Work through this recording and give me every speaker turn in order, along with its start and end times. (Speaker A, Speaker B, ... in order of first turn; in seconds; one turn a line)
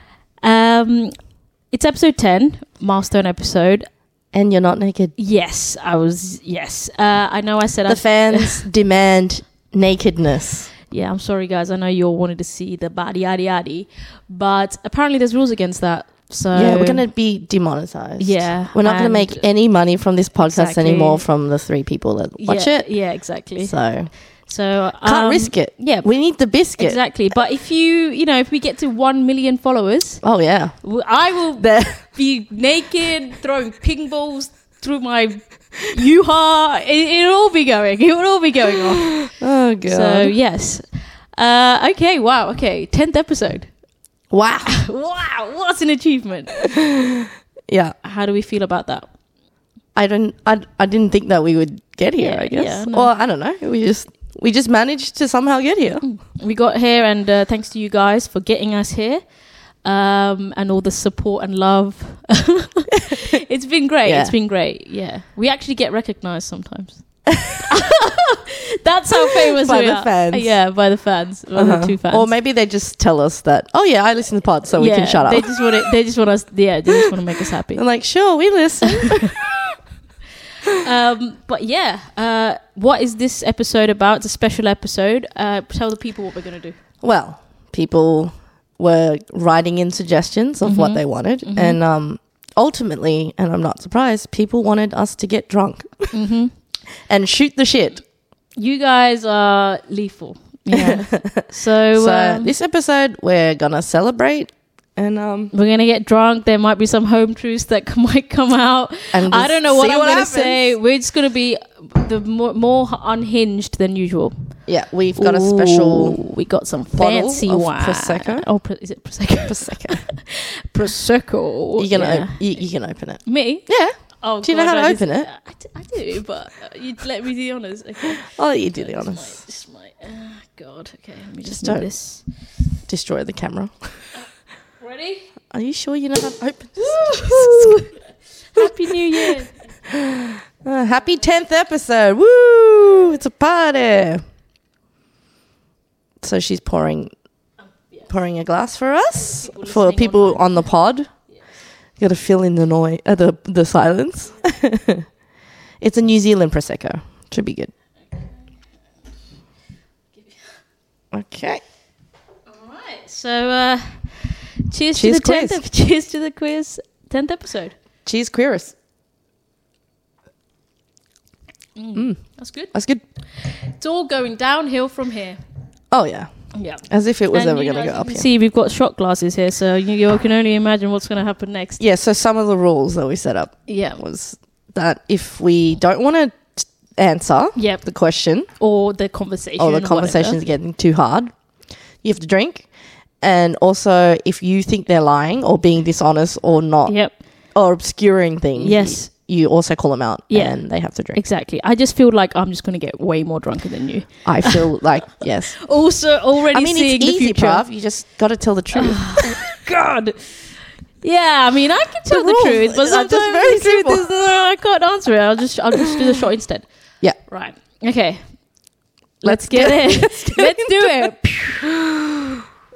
Speaker A: 0.4-1.2
Speaker A: 1.7-3.9
Speaker B: 4.3-5.1
Speaker A: 5.2-8.7
Speaker B: 7.9-10.7
Speaker A: 10.9-17.1
Speaker B: 16.5-24.3
Speaker A: 18.2-19.5
Speaker A: 20.4-21.2
Speaker A: 22.4-43.7
Speaker B: 25.0-27.0
Speaker B: 30.2-32.1
Speaker B: 39.2-40.3
Speaker B: 44.3-44.8
Speaker A: 44.7-46.7
Speaker B: 47.7-48.0
Speaker A: 48.0-49.1
Speaker B: 50.0-56.0
Speaker A: 52.2-53.1
Speaker A: 56.0-59.2
Speaker A: 59.8-72.3
Speaker B: 64.0-64.3
Speaker B: 69.2-70.8
Speaker B: 71.5-75.9
Speaker A: 74.8-77.8
Speaker B: 77.7-79.3
Speaker A: 80.8-86.8
Speaker B: 87.0-96.2
Speaker A: 90.6-91.8
Speaker A: 96.1-96.5
Speaker B: 97.1-98.0
Speaker A: 98.6-102.5
Speaker B: 100.7-105.5
Speaker A: 105.5-132.2
Speaker B: 109.1-110.7
Speaker B: 114.7-116.2
Speaker B: 116.9-118.5
Speaker B: 119.5-120.1
Speaker B: 121.8-125.3
Speaker B: 128.1-129.4
Speaker B: 131.4-131.9
Speaker B: 132.9-134.0
Speaker A: 134.8-135.3
Speaker B: 135.5-137.9
Speaker A: 136.8-139.8
Speaker B: 138.6-139.3
Speaker B: 139.9-144.2
Speaker A: 140.9-141.3
Speaker B: 146.2-147.1
Speaker B: 148.1-151.2
Speaker A: 149.2-150.7
Speaker B: 152.0-155.1
Speaker B: 155.8-157.7
Speaker A: 158.1-158.5
Speaker B: 161.1-161.6
Speaker A: 162.5-167.8
Speaker B: 164.9-165.6
Speaker B: 168.1-168.8
Speaker A: 171.8-175.4
Speaker B: 171.9-173.0
Speaker B: 175.9-178.3
Speaker A: 176.5-181.8
Speaker B: 181.8-188.5
Speaker A: 183.7-184.0
Speaker A: 187.6-187.8
Speaker A: 188.6-190.4
Speaker B: 189.6-191.3
Speaker B: 191.9-201.2
Speaker A: 196.9-197.2
Speaker A: 198.6-199.1
Speaker A: 200.3-204.7
Speaker B: 204.2-205.7
Speaker A: 205.6-207.7
Speaker B: 206.5-209.4
Speaker A: 208.8-216.7
Speaker B: 212.1-214.1
Speaker A: 217.3-218.3
Speaker A: 219.2-221.7
Speaker B: 219.2-221.1